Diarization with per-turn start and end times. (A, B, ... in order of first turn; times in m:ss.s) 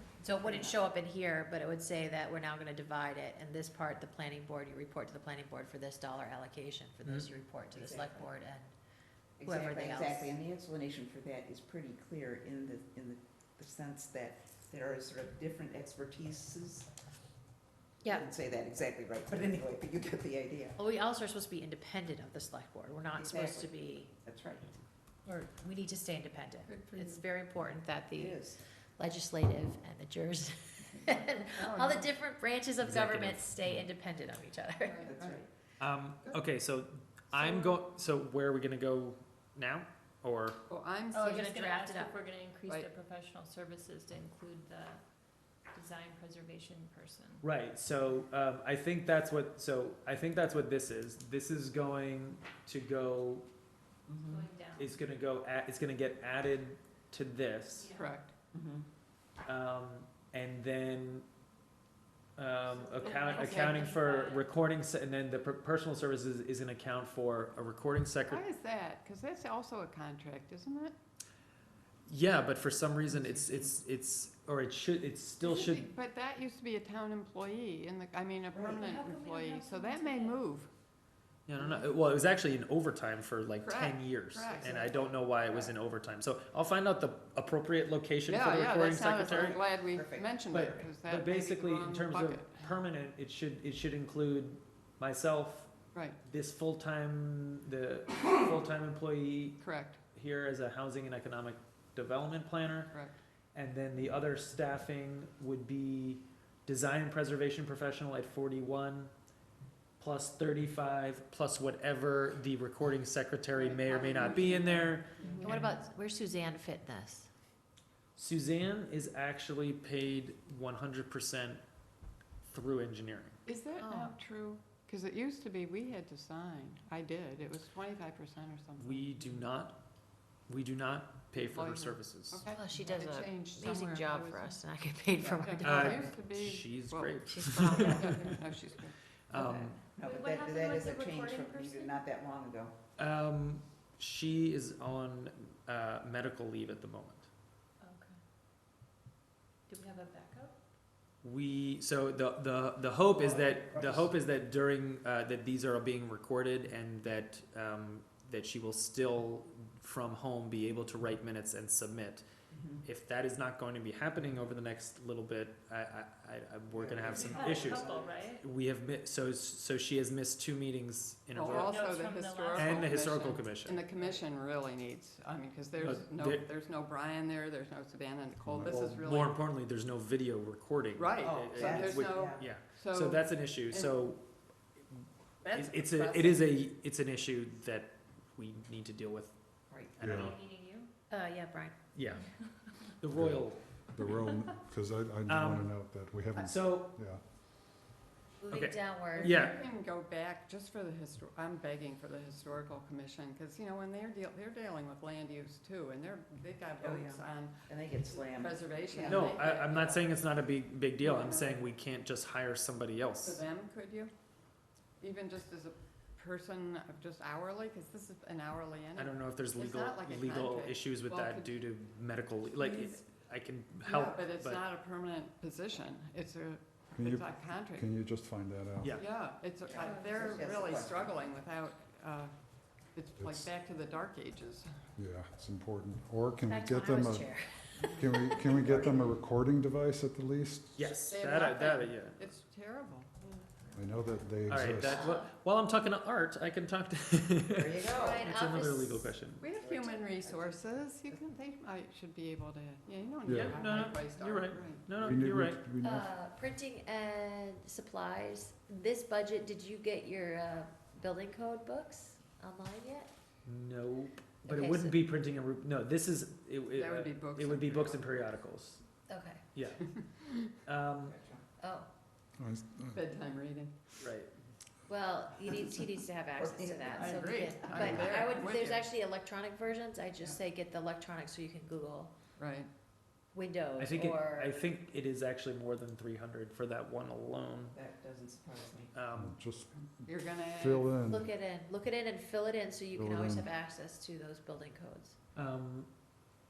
0:00.2-0:08.7 A
0:00.4-0:00.8 B
0:07.7-0:08.3 B
0:09.4-0:16.9 B
0:09.4-0:10.4 A
0:18.1-0:20.8 B
0:20.8-0:24.1 A
0:23.1-0:24.7 B
0:25.2-0:28.4 A
0:26.6-0:27.2 C
0:28.2-0:28.6 B
0:29.0-0:35.1 A
0:31.6-0:32.1 C
0:32.8-0:33.5 D
0:34.8-0:35.4 C
0:35.0-0:35.4 B
0:35.8-0:40.6 D
0:37.4-0:37.8 C
0:40.7-0:41.5 C
0:41.1-0:47.4 E
0:41.3-0:42.1 A
0:47.4-0:53.5 D
0:54.1-0:54.4 B
0:54.3-0:54.9 E
0:54.8-0:57.9 D
0:57.8-0:58.2 E
0:57.9-0:58.3 C
0:58.5-0:58.9 B
0:59.4-1:01.2 D
1:02.4-1:08.4 D
1:02.7-1:04.5 E
1:08.3-1:10.9 C
1:12.1-1:15.9 D
1:15.4-1:20.7 C
1:18.7-1:20.4 E
1:21.5-1:29.6 D
1:21.6-1:21.9 C
1:23.6-1:25.1 C
1:24.8-1:25.7 B
1:28.3-1:32.8 C
1:29.3-1:30.9 B
1:30.5-1:35.7 D
1:36.2-1:39.6 D
1:39.6-1:40.0 C
1:40.1-1:42.9 D
1:43.5-1:49.1 D
1:50.0-1:55.7 D
1:53.5-1:55.7 C
1:55.4-1:57.3 A
1:58.2-2:01.6 D
2:02.4-2:03.4 D
2:03.4-2:09.2 C
2:03.8-2:04.1 A
2:08.8-2:09.8 D
2:10.5-2:12.4 D
2:11.4-2:14.6 C
2:12.5-2:16.1 A
2:15.1-2:18.9 C
2:15.6-2:18.4 D
2:17.2-2:18.3 A
2:19.3-2:19.8 D
2:19.3-2:19.7 A
2:19.9-2:22.0 E
2:20.0-2:22.7 B
2:23.0-2:27.3 D
2:27.8-2:28.2 E
2:29.7-2:30.5 E
2:31.2-2:42.2 D
2:33.1-2:34.1 B
2:42.5-2:42.8 B
2:42.8-2:51.8 D
2:46.7-2:48.1 B
2:47.1-2:48.4 E
2:51.3-2:59.4 C
2:51.4-2:53.2 E
2:52.5-2:53.8 D
2:55.8-2:56.4 D
2:58.4-2:59.0 F
2:58.7-3:04.2 D
3:00.9-3:04.0 C
3:01.2-3:02.5 B
3:04.9-3:09.3 D
3:05.4-3:06.5 C
3:09.7-3:10.3 B
3:09.9-3:10.4 D
3:10.0-3:10.3 F
3:10.0-3:10.9 E
3:11.1-3:11.8 A
3:11.9-3:12.2 D
3:13.0-3:13.6 D
3:13.1-3:13.4 F
3:13.9-3:17.2 F
3:15.3-3:15.7 D
3:16.4-3:17.0 D
3:18.4-3:19.4 A
3:18.5-3:19.6 D
3:19.1-3:30.1 C
3:26.8-3:29.4 B
3:29.0-3:33.4 D
3:31.0-3:31.6 C
3:33.2-3:34.1 C
3:35.0-3:41.6 C
3:39.0-3:44.6 D
3:42.6-3:43.0 C
3:43.8-3:47.9 C
3:47.8-3:49.0 F
3:48.8-3:49.0 D
3:48.9-3:52.3 C
3:49.6-3:51.2 B
3:52.9-3:54.7 C
3:55.0-3:57.3 F
3:56.4-3:58.3 A
3:57.8-3:59.2 B
3:58.0-4:00.8 F
4:00.7-4:02.3 D
4:00.8-4:03.4 C
4:03.7-4:05.0 F
4:04.5-4:09.4 D
4:04.7-4:05.3 A
4:07.5-4:08.3 B
4:07.9-4:10.0 A
4:09.4-4:15.1 C
4:13.2-4:13.5 F
4:13.3-4:15.6 D
4:13.3-4:13.6 B
4:15.0-4:16.0 F
4:15.8-4:23.1 A
4:23.4-4:28.8 D
4:24.5-4:25.0 A
4:26.7-4:28.2 C
4:29.1-4:29.5 A
4:29.5-4:29.9 D
4:30.0-4:30.3 C
4:30.6-4:31.2 D
4:31.0-4:31.4 B
4:31.6-4:31.9 A
4:32.4-4:33.0 F
4:32.9-4:33.7 C
4:34.0-4:34.3 D
4:34.9-4:42.1 A
4:36.4-4:38.0 B
4:36.9-4:38.9 C
4:42.4-4:42.7 C
4:43.3-4:44.5 A
4:43.8-4:47.8 D
4:47.7-4:49.0 B
4:48.9-4:49.4 D
4:49.2-4:49.7 F
4:50.0-4:51.0 C
4:50.6-4:51.2 F
4:51.1-4:55.2 A
4:53.0-4:53.5 F
4:55.4-4:55.9 D